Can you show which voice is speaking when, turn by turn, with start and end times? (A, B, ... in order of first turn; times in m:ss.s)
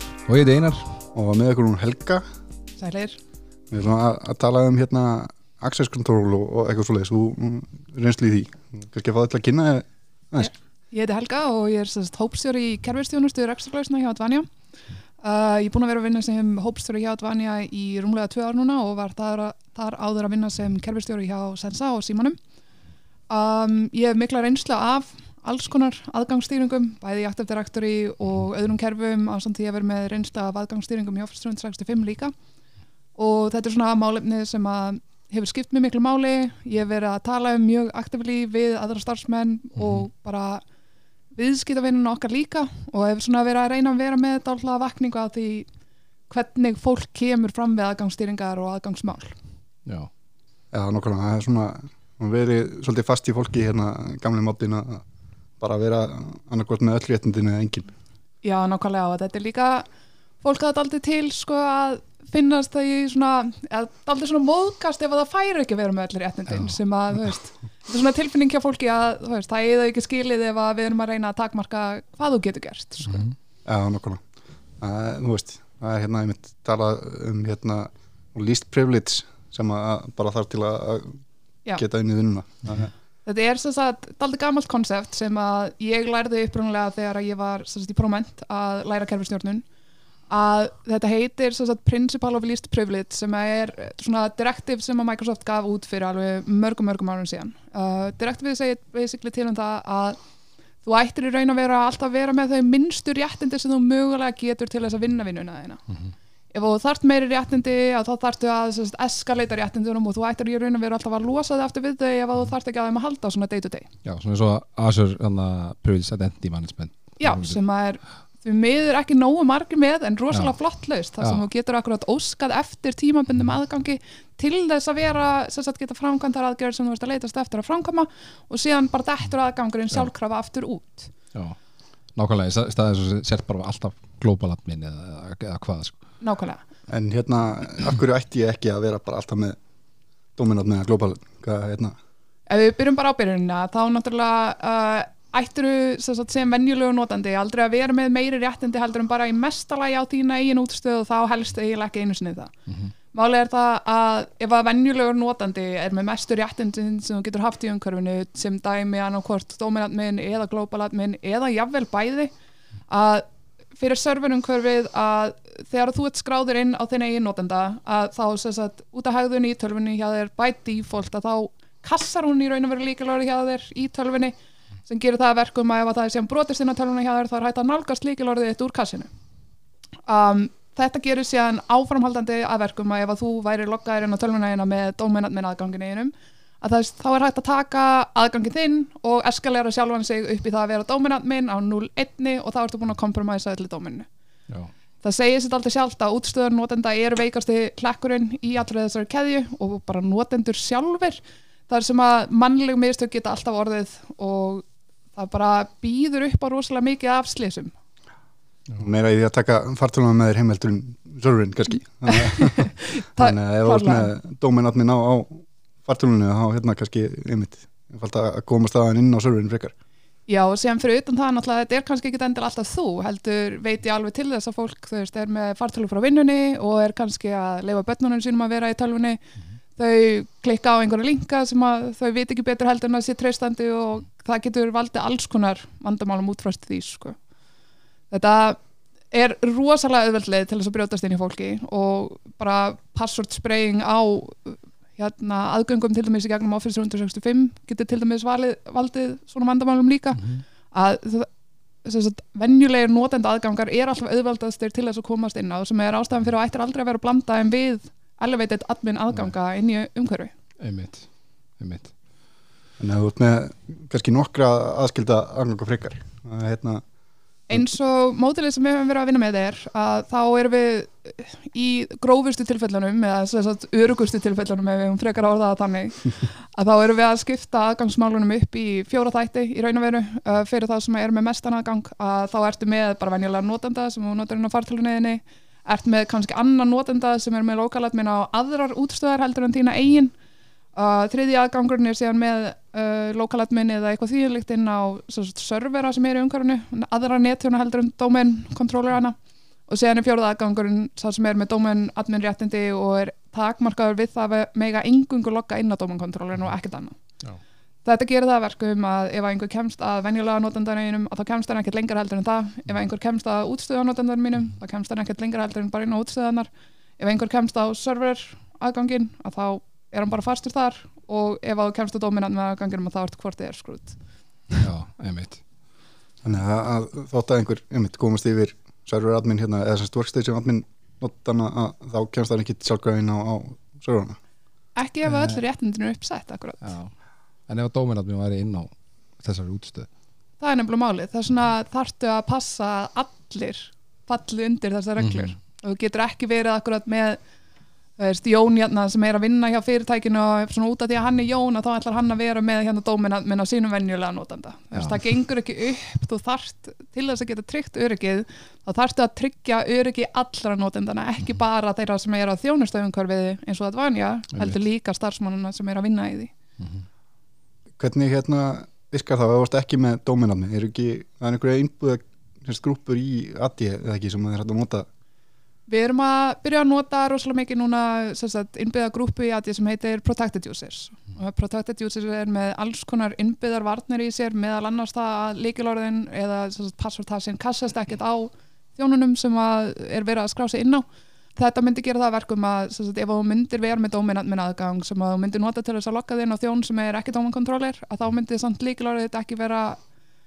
0:00.2-0:01.0 A
0:01.1-0:02.2 B
0:02.8-0:03.2 C
0:03.7-0:10.5 B
0:10.4-0:14.5 C
0:15.2-0:22.4 C
0:23.3-0:32.3 C
0:33.2-0:40.6 C
0:39.8-0:40.0 A
0:41.3-0:45.7 C
0:46.3-0:49.4 C
0:50.7-0:55.0 B
0:55.6-0:57.9 B
0:58.4-0:59.8 C
1:00.4-1:13.3 C
1:13.6-1:14.2 B
1:14.8-1:21.2 B
1:21.8-1:22.9 B
1:23.2-1:29.6 C
1:30.3-1:40.2 C
1:40.8-1:45.8 C
1:46.5-1:53.9 C
1:54.0-1:57.6 A
1:57.2-2:11.1 C
2:12.1-2:16.0 A
2:16.2-2:16.6 C
2:16.9-2:19.6 B
2:20.4-2:21.9 B
2:22.5-2:32.5 C
2:33.1-2:42.3 C
2:42.9-2:43.2 C
2:43.8-2:54.3 C
2:54.8-2:59.1 C
3:00.1-3:14.1 C
3:15.0-3:27.7 C
3:28.8-3:39.7 B
3:32.1-3:34.1 C
3:40.3-3:49.2 C
3:49.8-3:57.2 C
3:58.1-3:58.6 C
3:59.1-4:11.3 C
4:10.2-4:10.4 A
4:11.8-4:20.3 C
4:20.6-4:21.0 A
4:21.6-4:21.9 A
4:22.8-4:26.8 B
4:27.5-4:50.1 C
4:50.7-5:07.0 C
5:07.8-5:24.0 C
5:24.6-5:25.4 A
5:26.2-5:34.2 B
5:34.8-5:36.7 C
5:36.6-5:36.9 A
5:37.5-5:39.9 A
5:40.4-5:47.2 C
5:45.0-5:45.3 A
5:48.0-6:06.3 C
6:06.6-6:06.8 A
6:07.8-6:14.9 B
6:15.7-6:39.8 C